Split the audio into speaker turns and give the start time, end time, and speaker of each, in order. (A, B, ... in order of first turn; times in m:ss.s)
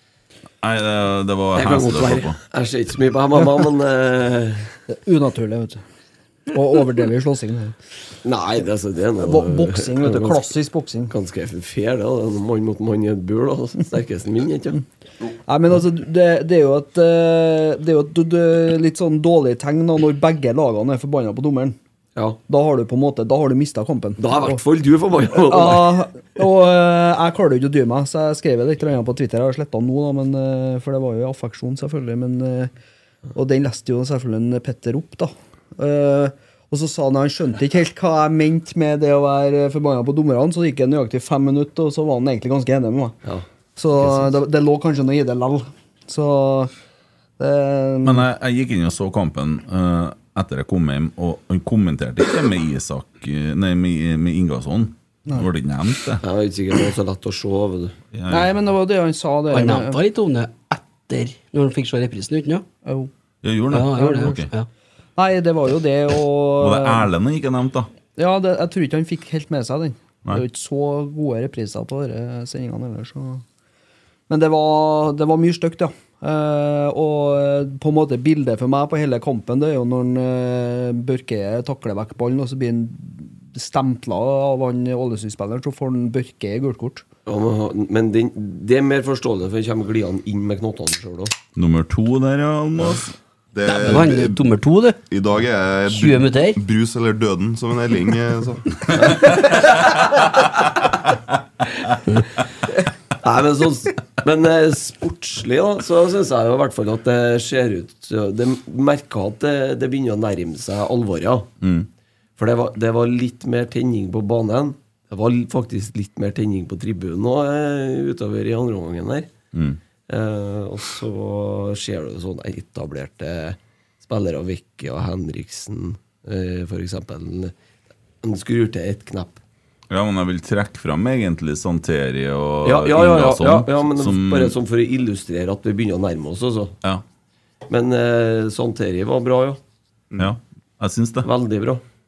0:00.6-0:02.4 A
0:01.6-0:04.7 B
0:04.9-0:05.8 C
0:06.5-0:07.8 C
0:08.2-0:10.5 B
0:09.2-0:11.1 C
0:11.1-0:14.8 B
0:15.5-0:21.8 C
0:22.5-0:24.6 C
0:24.2-0:26.0 B
0:25.3-0:32.7 C
0:33.4-0:43.2 C
0:43.8-0:46.7 C
0:44.0-0:44.3 B
0:47.4-0:48.2 C
0:48.0-0:56.2 A
0:56.2-0:57.9 B
0:58.1-0:58.5 A
0:58.3-1:00.0 C
0:59.5-1:02.6 D
1:02.8-1:03.1 C
1:03.4-1:04.5 A
1:03.7-1:04.7 D
1:04.0-1:04.3 C
1:05.2-1:07.1 C
1:06.6-1:07.9 A
1:08.2-1:13.4 C
1:14.3-1:27.1 C
1:27.3-1:31.3 B
1:31.6-1:33.1 A
1:33.5-1:34.4 E
1:33.7-1:35.0 D
1:35.1-1:38.8 E
1:35.9-1:36.6 D
1:43.2-1:51.5 B
1:51.6-1:51.9 A
1:52.4-1:59.3 B
1:59.5-1:59.8 A
2:00.1-2:07.5 B
2:08.2-2:09.4 B
2:09.9-2:14.6 A
2:12.6-2:16.7 B
2:17.7-2:19.6 B
2:20.2-2:21.3 A
2:21.2-2:21.8 B